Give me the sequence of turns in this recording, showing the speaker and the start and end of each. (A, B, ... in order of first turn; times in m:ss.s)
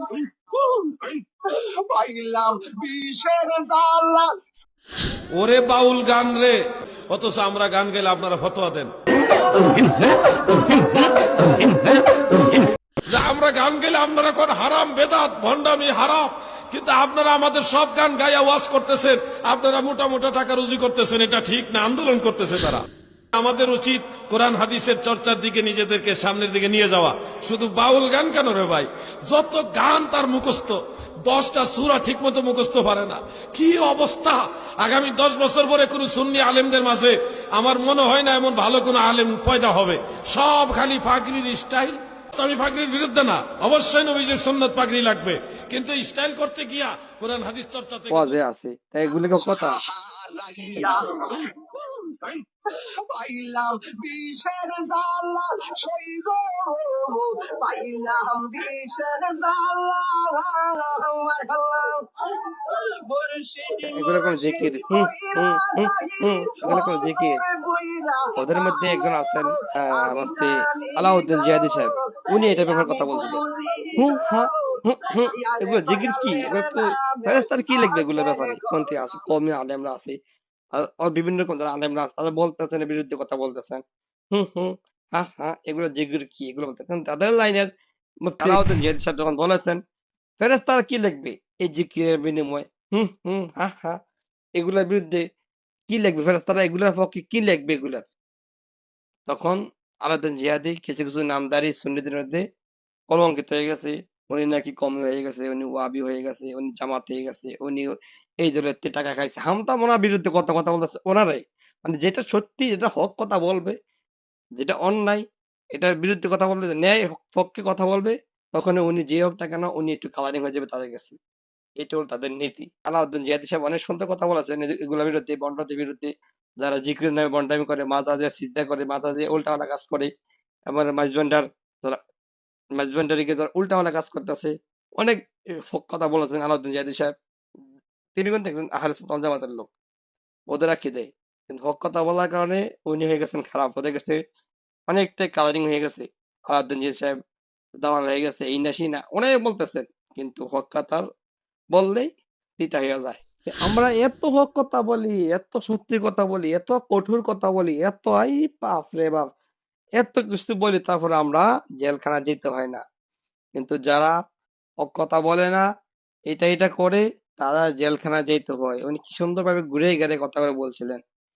0:00.5-0:04.3 A
0:05.4-0:06.6 B
0:07.1-0:08.9 B
0:13.0-0:22.8 B
0:23.3-0:48.3 B
0:48.1-0:49.8 C
0:49.3-0:52.4 A
0:53.1-1:02.1 A
1:02.7-1:14.5 A
1:03.8-1:07.4 C
1:08.4-1:13.4 C
1:14.0-1:20.2 C
1:15.3-1:19.2 A
1:20.7-1:27.7 C
1:28.2-1:29.8 C
1:30.4-1:34.0 C
1:34.6-1:35.2 C
1:35.9-1:38.1 C
1:39.3-1:42.4 C
1:43.1-1:53.7 C
1:54.6-1:55.2 C
1:55.7-2:01.2 C
2:01.8-2:10.1 C
2:10.7-2:12.0 C
2:12.8-2:17.1 C
2:18.1-2:19.7 C
2:20.5-2:24.2 C
2:24.9-2:27.2 C
2:27.8-2:31.0 C
2:31.7-2:39.3 C
2:40.0-2:42.8 C
2:43.5-2:44.1 C
2:44.8-2:45.6 C
2:46.3-2:51.0 C